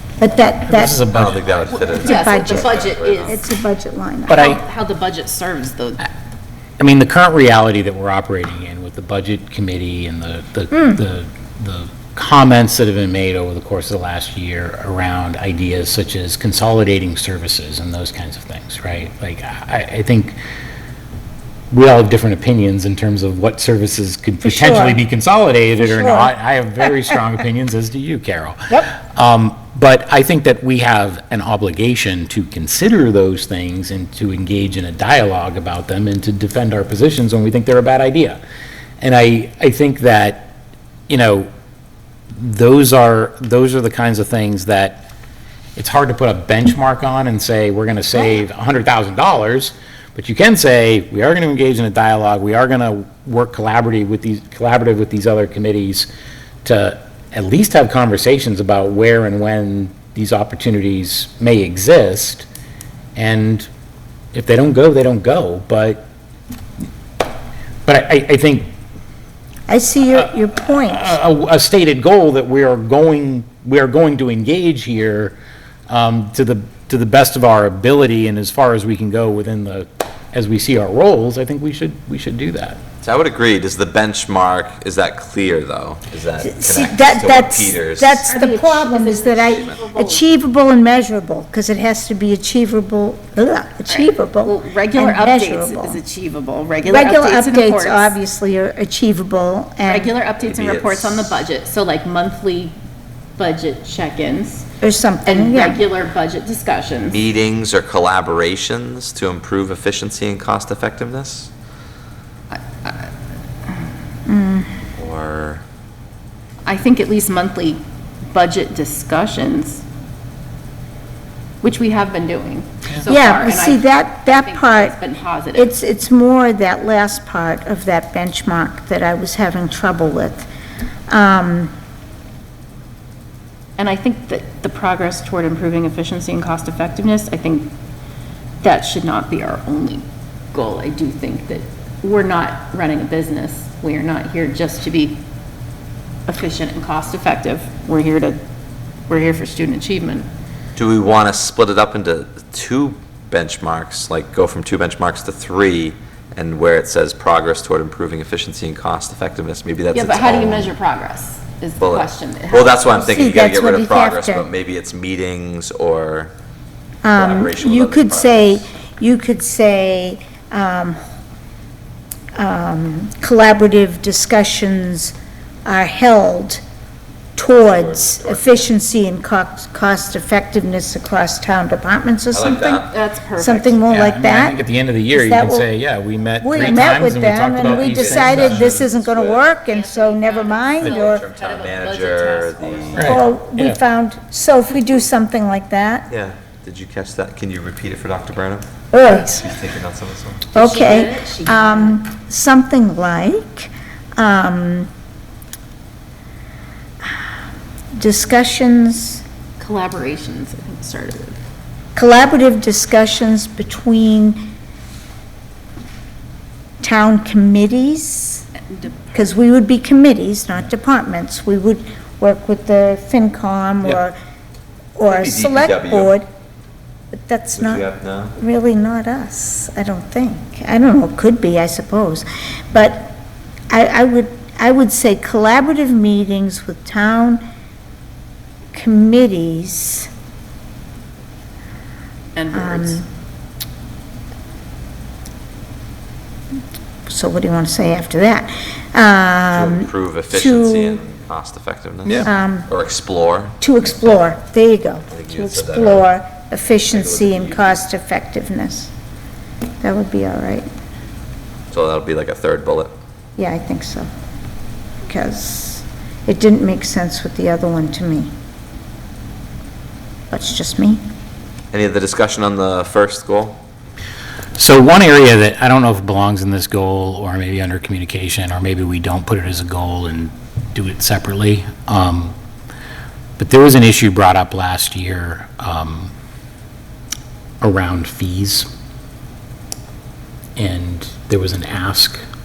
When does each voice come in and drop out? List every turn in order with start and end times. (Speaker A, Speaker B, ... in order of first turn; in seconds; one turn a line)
Speaker A: 0.2-1.0
Speaker B: 0.7-1.9
Speaker C: 1.1-3.4
Speaker D: 1.7-3.4
Speaker A: 2.0-4.5
Speaker D: 4.3-6.1
Speaker B: 4.3-4.6
Speaker B: 6.8-20.4
Speaker B: 21.7-38.4
Speaker A: 24.4-25.0
Speaker A: 25.8-26.3
Speaker B: 39.0-40.5
Speaker B: 41.1-41.5
Speaker B: 42.3-45.0
Speaker B: 45.8-56.1
Speaker B: 56.6-62.5
Speaker B: 63.2-63.7
Speaker B: 64.3-66.0
Speaker B: 67.8-68.7
Speaker A: 69.7-71.2
Speaker B: 70.2-75.3
Speaker B: 75.9-82.8
Speaker C: 83.0-88.3
Speaker A: 86.4-96.0
Speaker D: 88.3-90.2
Speaker D: 93.9-98.2
Speaker A: 96.9-100.1
Speaker D: 99.9-102.8
Speaker C: 100.4-101.4
Speaker D: 103.4-104.7
Speaker A: 104.8-105.8
Speaker D: 105.2-107.2
Speaker C: 107.1-111.5
Speaker D: 112.5-113.1
Speaker A: 114.3-114.7
Speaker C: 114.9-115.6
Speaker D: 116.6-119.8
Speaker D: 121.6-125.7
Speaker A: 123.0-125.0
Speaker A: 125.5-130.5
Speaker A: 131.1-131.7
Speaker D: 133.8-137.7
Speaker D: 138.6-145.2
Speaker D: 146.3-148.4
Speaker D: 149.1-150.3
Speaker C: 150.8-160.7
Speaker D: 159.9-163.0
Speaker C: 161.8-166.3
Speaker A: 163.0-164.4
Speaker A: 167.0-171.0
Speaker C: 167.2-168.7
Speaker A: 172.4-175.2
Speaker A: 175.7-176.6
Speaker A: 177.4-182.8
Speaker C: 177.6-178.6
Speaker C: 182.3-182.9
Speaker D: 182.9-183.8
Speaker A: 183.4-185.7
Speaker B: 183.9-188.9
Speaker A: 186.4-191.2
Speaker C: 187.8-189.5
Speaker D: 189.7-193.2
Speaker C: 190.8-193.1
Speaker B: 193.0-193.8
Speaker A: 193.0-196.1
Speaker C: 196.1-200.4
Speaker A: 198.9-199.4
Speaker D: 200.5-202.0
Speaker A: 200.5-204.9
Speaker A: 208.0-209.2
Speaker D: 209.6-211.4
Speaker A: 211.9-214.5
Speaker A: 216.8-218.4
Speaker A: 219.1-224.2
Speaker A: 225.0-226.3
Speaker C: 225.1-226.1
Speaker A: 227.1-227.8
Speaker C: 227.6-228.3
Speaker A: 228.4-233.2
Speaker A: 233.7-237.4
Speaker A: 238.7-240.1
Speaker D: 242.3-243.0
Speaker A: 242.5-243.1
Speaker A: 247.1-251.0
Speaker C: 249.5-253.5
Speaker A: 252.2-252.7
Speaker A: 253.6-258.9
Speaker C: 255.1-256.1
Speaker C: 256.9-257.8
Speaker A: 259.8-260.7
Speaker C: 261.7-262.9
Speaker A: 263.4-264.1
Speaker A: 265.0-268.3
Speaker A: 270.3-271.0
Speaker C: 271.7-273.6
Speaker B: 274.6-282.3
Speaker B: 283.4-286.1
Speaker B: 287.6-288.7
Speaker B: 290.6-292.2